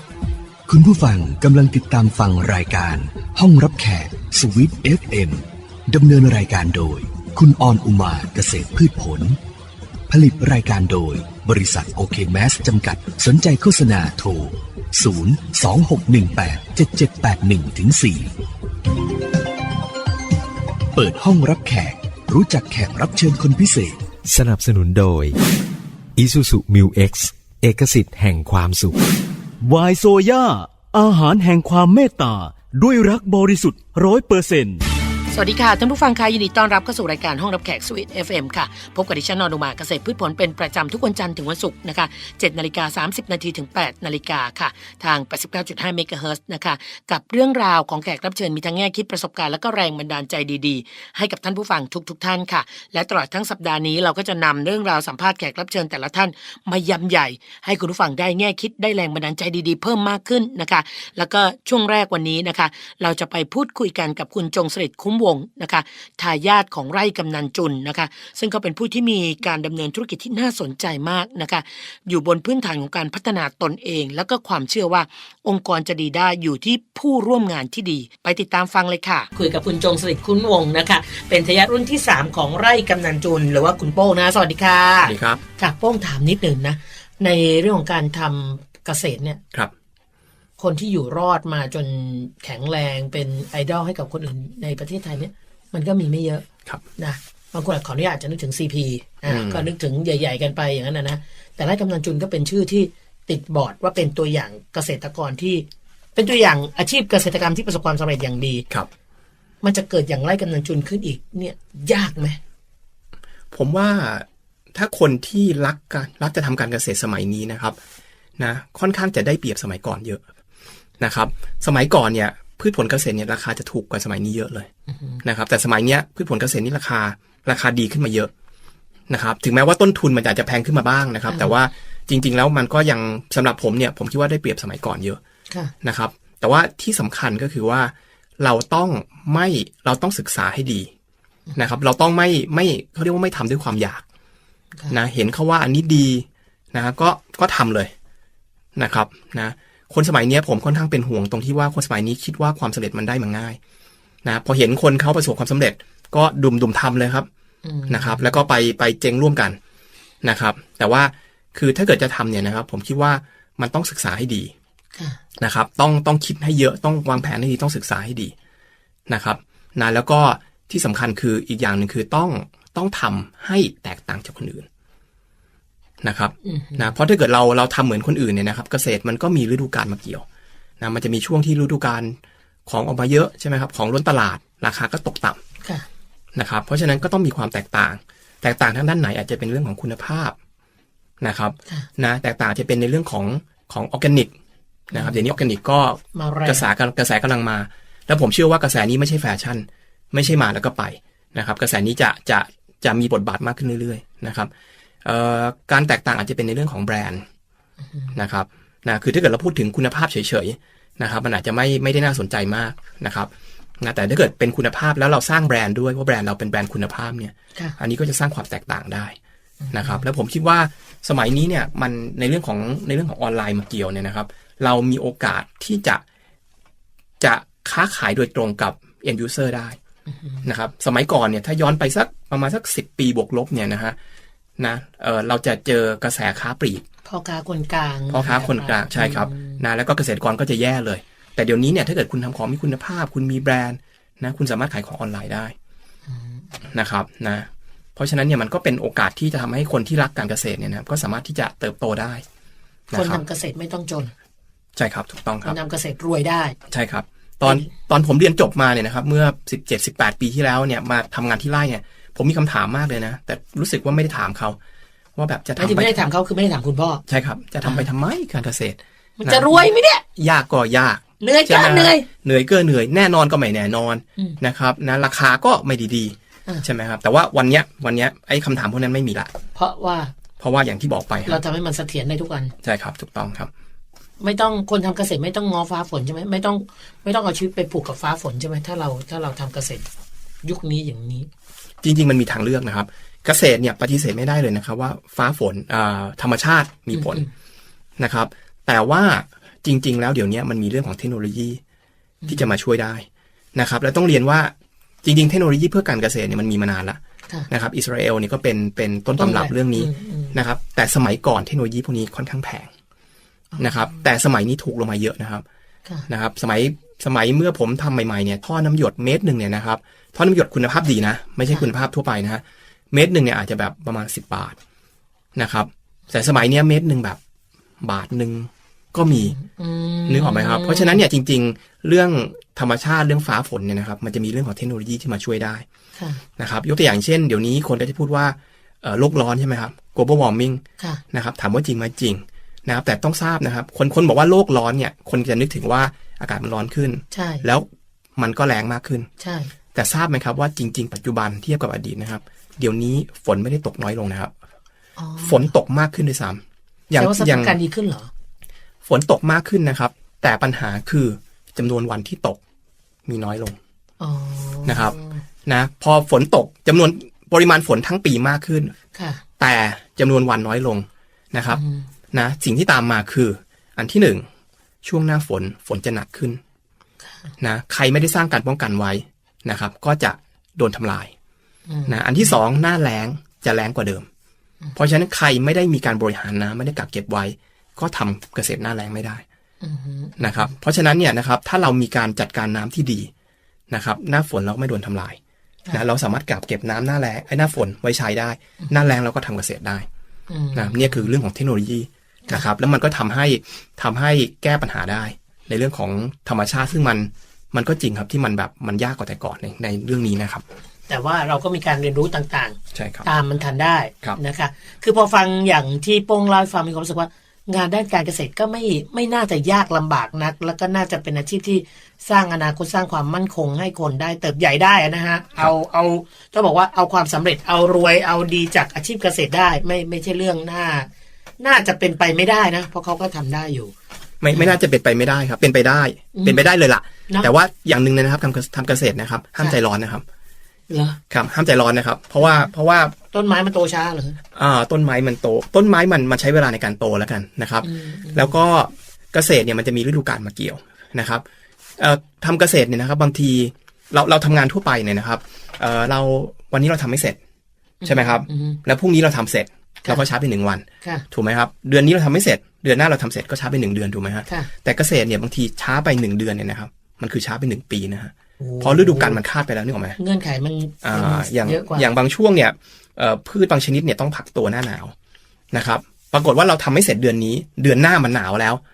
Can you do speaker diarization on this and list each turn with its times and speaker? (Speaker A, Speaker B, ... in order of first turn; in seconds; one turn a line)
Speaker A: 0.7-9.4
Speaker A: 10.1-18.3
Speaker A: 20.9-24.1
Speaker B: 24.2-25.4
Speaker B: 26.1-29.0
Speaker C: 29.6-34.8
Speaker D: 35.3-89.4
Speaker E: 85.0-85.4
Speaker D: 90.6-96.4
Speaker D: 97.0-108.6
Speaker E: 99.3-99.7
Speaker D: 109.6-112.4
Speaker E: 113.5-117.8
Speaker E: 118.4-120.2
Speaker E: 121.0-124.7
Speaker D: 124.9-125.2
Speaker E: 125.2-128.3
Speaker E: 129.1-135.2
Speaker E: 135.8-140.9
Speaker E: 141.6-144.0
Speaker E: 144.9-147.9
Speaker E: 148.8-153.6
Speaker E: 154.2-157.3
Speaker D: 157.6-158.3
Speaker E: 157.9-159.6
Speaker E: 160.2-164.5
Speaker E: 165.4-168.3
Speaker E: 169.1-174.7
Speaker E: 176.0-180.2
Speaker D: 176.4-176.9
Speaker E: 180.8-182.2
Speaker E: 182.7-185.4
Speaker E: 186.3-190.3
Speaker E: 191.2-194.3
Speaker E: 194.9-204.5
Speaker D: 194.9-195.2
Speaker D: 196.1-196.7
Speaker E: 205.0-207.2
Speaker E: 208.1-219.2
Speaker D: 219.6-220.0
Speaker E: 219.7-226.0
Speaker E: 227.2-229.8
Speaker D: 230.1-230.4
Speaker E: 230.4-233.9
Speaker E: 234.6-236.8
Speaker D: 237.1-239.6
Speaker E: 238.1-245.6
Speaker D: 246.1-246.5
Speaker E: 246.7-252.2
Speaker E: 252.9-253.2
Speaker D: 252.9-254.1
Speaker E: 254.8-255.6
Speaker D: 255.4-256.6
Speaker E: 256.7-264.6
Speaker E: 265.2-266.0
Speaker D: 265.6-267.0
Speaker E: 267.1-279.3
Speaker D: 269.2-270.0
Speaker D: 271.2-272.1
Speaker D: 279.6-280.1
Speaker E: 280.4-281.4
Speaker D: 281.3-282.5
Speaker E: 282.6-283.5
Speaker D: 284.2-289.9
Speaker D: 290.4-291.3
Speaker E: 291.8-297.2
Speaker D: 296.9-297.3
Speaker E: 298.0-301.6
Speaker D: 302.2-302.5
Speaker E: 302.3-304.5
Speaker E: 305.0-307.0
Speaker E: 307.5-312.7
Speaker D: 309.2-310.3
Speaker D: 313.5-314.0
Speaker E: 313.6-315.4
Speaker E: 316.1-324.6
Speaker E: 325.4-327.2
Speaker E: 327.8-329.4
Speaker D: 329.3-331.0
Speaker E: 330.1-335.6
Speaker D: 335.9-336.2
Speaker E: 336.4-349.1
Speaker D: 347.1-347.4
Speaker D: 349.2-349.5
Speaker E: 349.7-354.3
Speaker D: 355.0-355.5
Speaker E: 355.2-357.6
Speaker D: 356.9-358.1
Speaker E: 358.9-362.4
Speaker E: 363.1-363.6
Speaker D: 364.0-365.2
Speaker E: 364.6-364.9
Speaker E: 365.4-368.7
Speaker D: 368.9-369.2
Speaker E: 369.4-371.6
Speaker D: 371.5-371.8
Speaker E: 372.1-374.2
Speaker E: 374.8-376.4
Speaker D: 377.0-377.3
Speaker E: 377.4-381.1
Speaker D: 381.7-382.3
Speaker E: 381.9-384.1
Speaker E: 384.8-389.2
Speaker D: 389.6-390.5
Speaker E: 390.2-393.1
Speaker E: 393.7-395.2
Speaker E: 395.7-399.9
Speaker D: 400.3-401.1
Speaker E: 400.6-410.4
Speaker D: 410.9-430.9
Speaker E: 412.7-413.1
Speaker D: 431.4-433.7
Speaker E: 434.2-440.0
Speaker D: 436.1-436.5
Speaker D: 440.7-441.0
Speaker E: 441.1-442.9
Speaker D: 442.2-442.5
Speaker D: 443.1-444.2
Speaker E: 444.3-451.2
Speaker D: 447.6-448.4
Speaker E: 451.8-457.2
Speaker D: 457.8-458.6
Speaker E: 457.8-470.0
Speaker D: 468.4-469.2
Speaker D: 470.0-471.9
Speaker E: 470.8-474.9
Speaker E: 475.5-478.6